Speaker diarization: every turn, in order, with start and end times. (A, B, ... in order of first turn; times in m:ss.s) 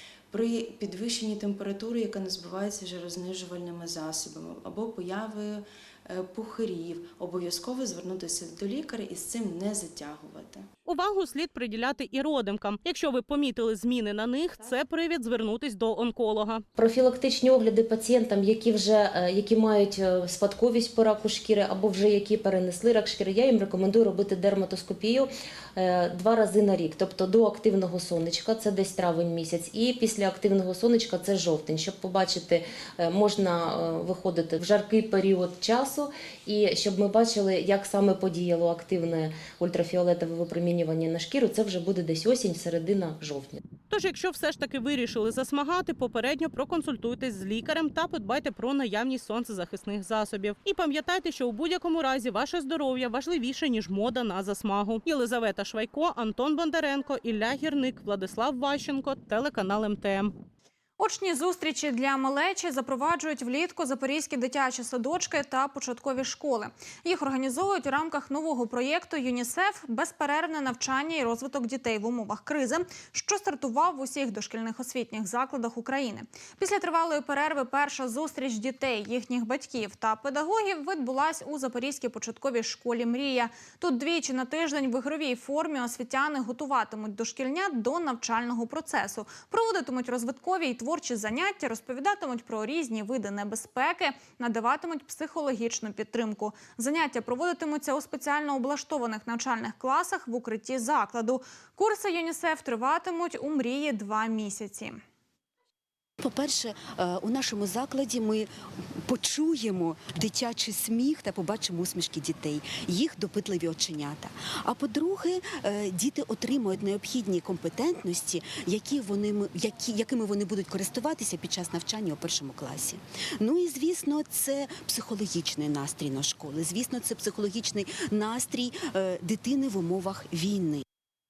0:00.3-0:10.6 A
0:10.8-0:16.6 B
0:16.8-0:43.6 C
0:43.9-1:00.3 B
1:01.0-1:45.0 D
1:46.2-2:10.8 E